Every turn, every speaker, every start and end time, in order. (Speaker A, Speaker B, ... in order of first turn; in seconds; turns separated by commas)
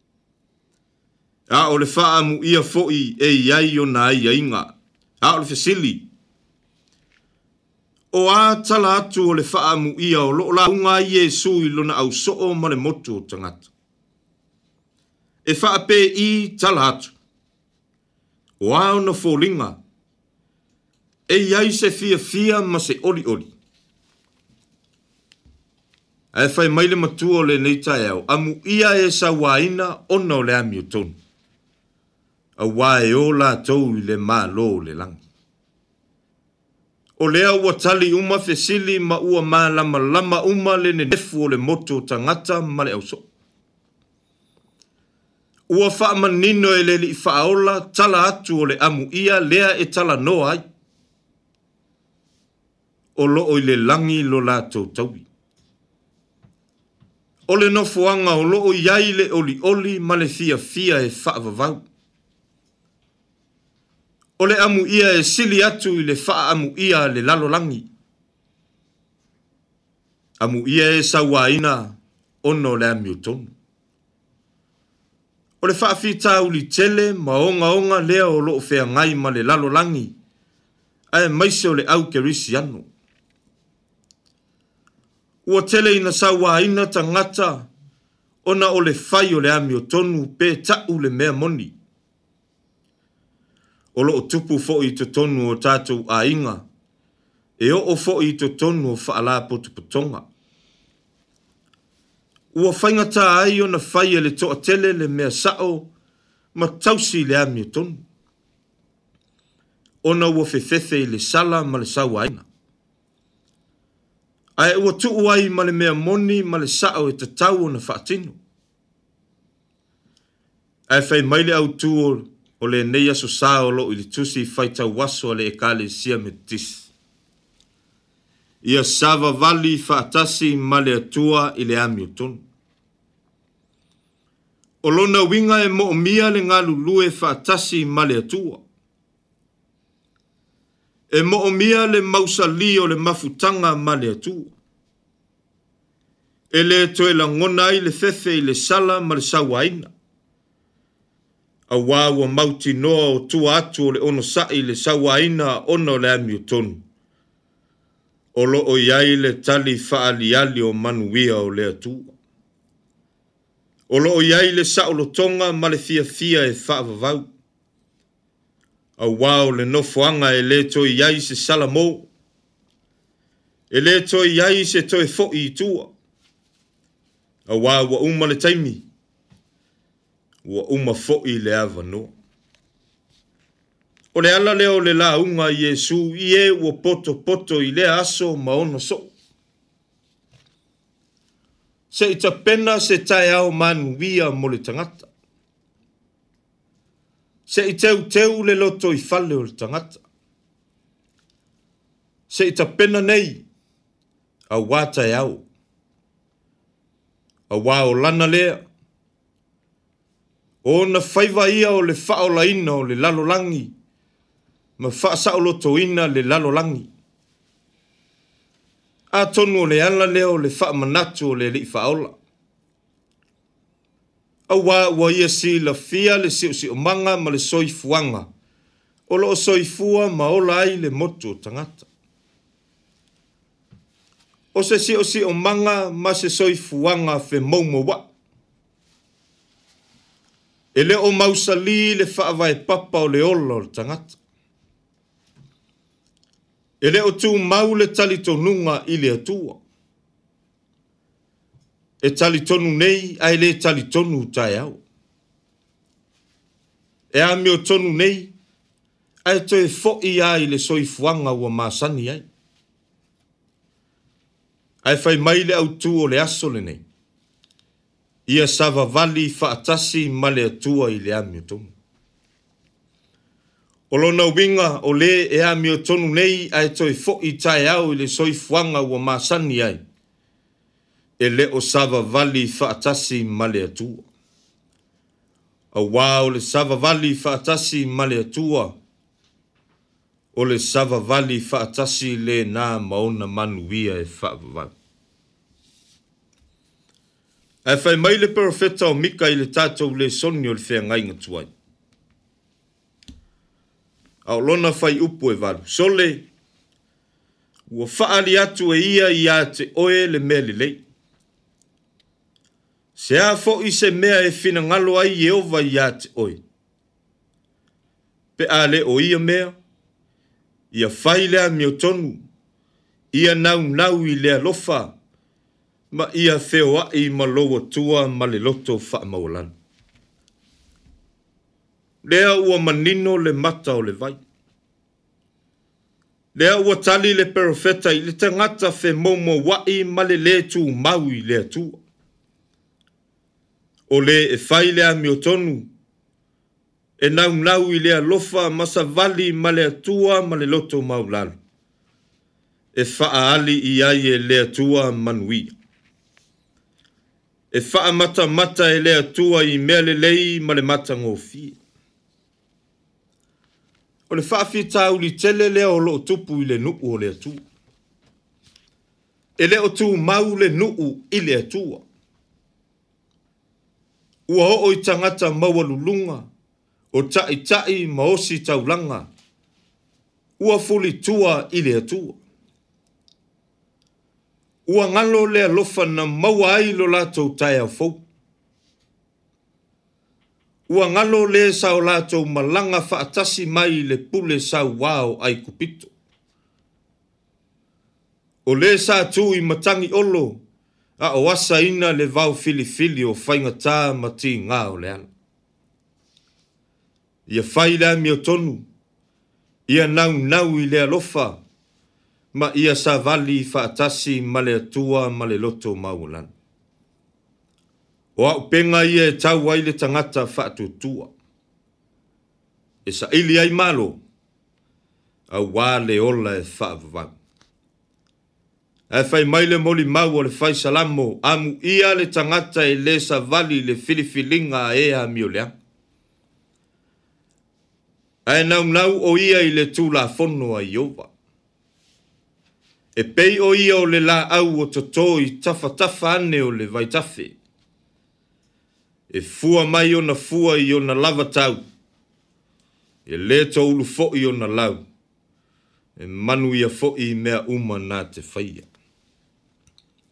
Speaker A: 1.5-6.0, Speaker A: 8.1-13.7, Speaker A: 15.4-17.1, Speaker A: 18.6-19.8, Speaker A: 21.3-23.5, Speaker A: 26.3-31.1, Speaker A: 32.6-35.2, Speaker A: 37.2-43.2, Speaker A: 45.7-50.6, Speaker A: 53.1-55.2, Speaker A: 57.5-61.8, Speaker A: 64.4-67.9, Speaker A: 70.4-73.5, Speaker A: 75.6-80.1, Speaker A: 81.1-82.9, Speaker A: 85.5-87.7, Speaker A: 88.4-91.7, Speaker A: 93.9-96.6, Speaker A: 97.6-100.2, Speaker A: 102.5-105.9, Speaker A: 106.5-108.0, Speaker A: 110.0-112.4, Speaker A: 114.6-118.4, Speaker A: 120.9-126.9, Speaker A: 128.6-132.4, Speaker A: 134.8-138.6, Speaker A: 141.1-144.5, Speaker A: 146.5-149.9, Speaker A: 151.7-156.8, Speaker A: 158.3-162.1, Speaker A: 163.9-167.3, Speaker A: 169.0-172.1, Speaker A: 173.7-175.9, Speaker A: 177.5-178.8, Speaker A: 180.4-182.1, Speaker A: 184.1-189.1, Speaker A: 191.9-195.1, Speaker A: 197.5-200.0, Speaker A: 202.3-203.4, Speaker A: 204.5-205.4, Speaker A: 207.5-208.6, Speaker A: 210.6-213.7, Speaker A: 214.8-216.9, Speaker A: 219.1-222.1, Speaker A: 224.5-228.3, Speaker A: 229.1-231.9, Speaker A: 234.5-238.1, Speaker A: 240.7-244.2, Speaker A: 246.8-249.6, Speaker A: 252.0-254.8, Speaker A: 257.1-258.3, Speaker A: 259.2-262.2, Speaker A: 264.8-266.8, Speaker A: 268.3-271.7, Speaker A: 273.9-279.8, Speaker A: 281.2-284.1, Speaker A: 285.7-288.8, Speaker A: 290.3-294.7, Speaker A: 297.6-301.5, Speaker A: 304.2-306.2, Speaker A: 307.7-310.8, Speaker A: 312.9-316.4, Speaker A: 318.4-319.6, Speaker A: 320.7-322.2, Speaker A: 323.1-324.9, Speaker A: 325.9-329.5, Speaker A: 332.0-334.2, Speaker A: 336.3-341.8, Speaker A: 343.9-345.7, Speaker A: 347.0-351.4, Speaker A: 352.7-355.5, Speaker A: 357.5-361.6, Speaker A: 364.1-367.4, Speaker A: 369.4-371.8, Speaker A: 374.3-376.3, Speaker A: 376.9-379.1, Speaker A: 380.4-382.2, Speaker A: 384.6-388.0, Speaker A: 390.7-395.9, Speaker A: 398.4-400.4, Speaker A: 401.0-405.1, Speaker A: 407.3-408.6, Speaker A: 409.7-411.4, Speaker A: 412.3-416.3, Speaker A: 418.1-421.1, Speaker A: 422.8-424.0, Speaker A: 425.3-427.1, Speaker A: 428.9-435.5, Speaker A: 438.2-441.1, Speaker A: 442.9-447.4, Speaker A: 449.1-451.6, Speaker A: 453.1-454.8, Speaker A: 456.0-458.7